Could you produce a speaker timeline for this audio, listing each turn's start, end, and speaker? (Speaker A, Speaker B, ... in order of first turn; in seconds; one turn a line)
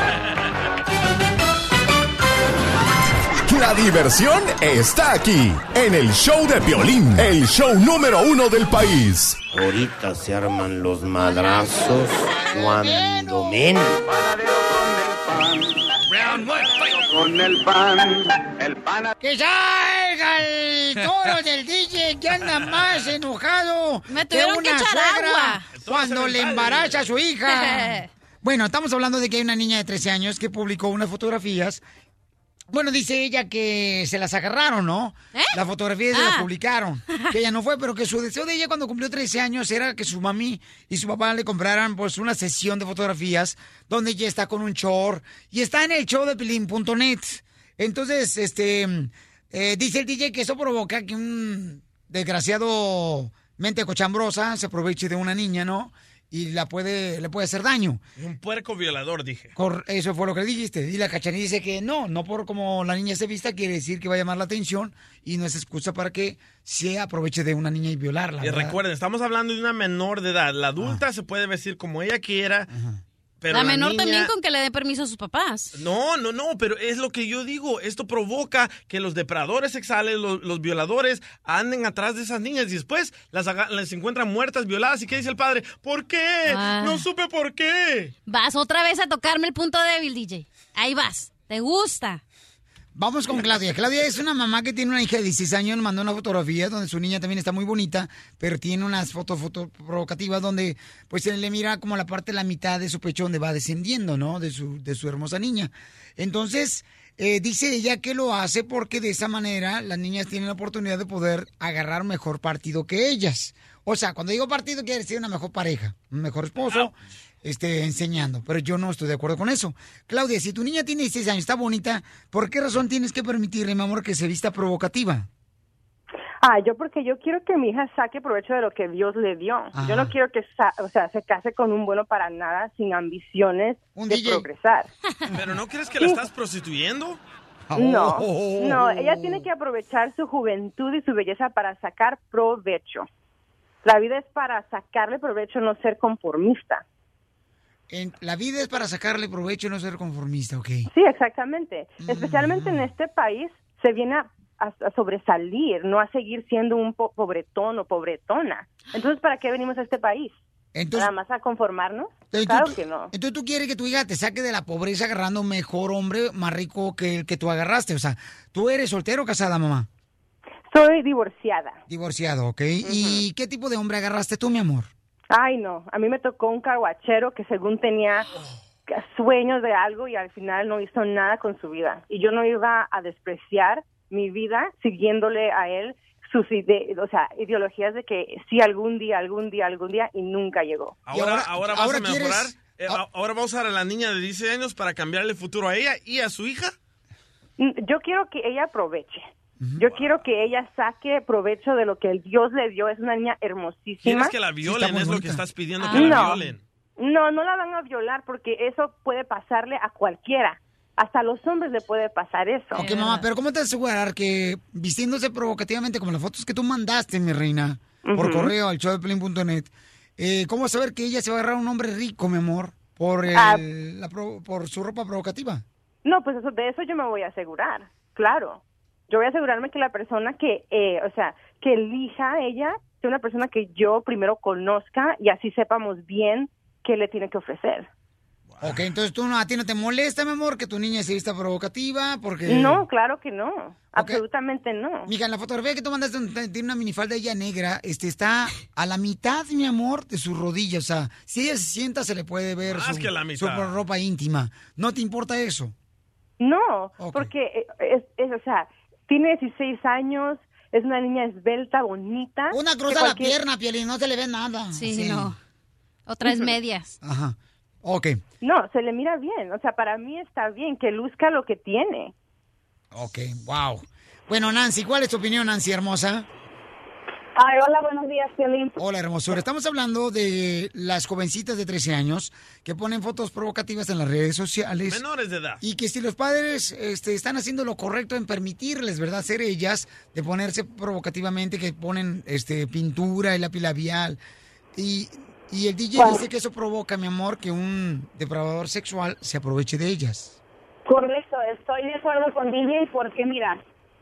Speaker A: 3.4-9.4
Speaker B: 9.5-13.9
Speaker C: 11.3-13.6
Speaker D: 13.9-19.1
Speaker C: 19.2-31.8
Speaker E: 24.1-25.7
Speaker F: 25.8-27.1
Speaker E: 27.5-28.1
Speaker C: 32.7-58.0
Speaker E: 36.1-36.5
Speaker F: 58.2-59.5
Speaker C: 59.6-68.8
Speaker F: 68.4-72.7
Speaker F: 73.4-74.3
Speaker E: 73.5-75.8
Speaker F: 75.7-88.1
Speaker E: 86.5-87.1
Speaker E: 88.3-92.2
Speaker C: 92.9-125.3
Speaker G: 126.4-134.9
Speaker C: 129.7-130.1
Speaker C: 133.9-134.5
Speaker F: 135.3-137.2
Speaker C: 137.7-139.5
Speaker G: 137.7-143.1
Speaker G: 143.8-146.8
Speaker C: 147.9-150.9
Speaker G: 150.9-160.4
Speaker C: 152.0-152.9
Speaker C: 160.7-161.1
Speaker G: 160.9-163.1
Speaker C: 162.3-169.9
Speaker G: 170.7-171.8
Speaker C: 171.9-174.9
Speaker G: 172.8-173.2
Speaker G: 175.3-178.3
Speaker G: 178.9-191.0
Speaker F: 191.1-196.7
Speaker C: 191.1-193.0
Speaker G: 197.6-204.3
Speaker C: 199.6-199.8
Speaker F: 199.8-200.2
Speaker F: 204.0-206.6
Speaker C: 204.6-205.4
Speaker E: 205.8-206.2
Speaker G: 205.9-206.4
Speaker G: 207.0-212.9
Speaker C: 212.7-225.6
Speaker E: 212.8-213.2
Speaker G: 218.0-218.6
Speaker G: 223.3-223.6
Speaker G: 226.1-237.9
Speaker F: 238.5-238.8
Speaker C: 238.6-242.9
Speaker G: 242.4-245.1
Speaker C: 243.9-244.2
Speaker C: 245.1-255.7
Speaker F: 252.7-253.8
Speaker G: 256.4-263.3
Speaker C: 257.0-257.3
Speaker C: 262.5-265.3
Speaker E: 264.7-265.4
Speaker E: 266.1-267.0
Speaker C: 267.0-268.2
Speaker G: 268.4-272.1
Speaker C: 272.9-276.3
Speaker H: 277.4-278.8
Speaker C: 278.8-285.0
Speaker F: 284.9-285.6
Speaker C: 285.6-294.2
Speaker C: 294.7-300.4
Speaker H: 295.9-296.2
Speaker H: 300.9-303.6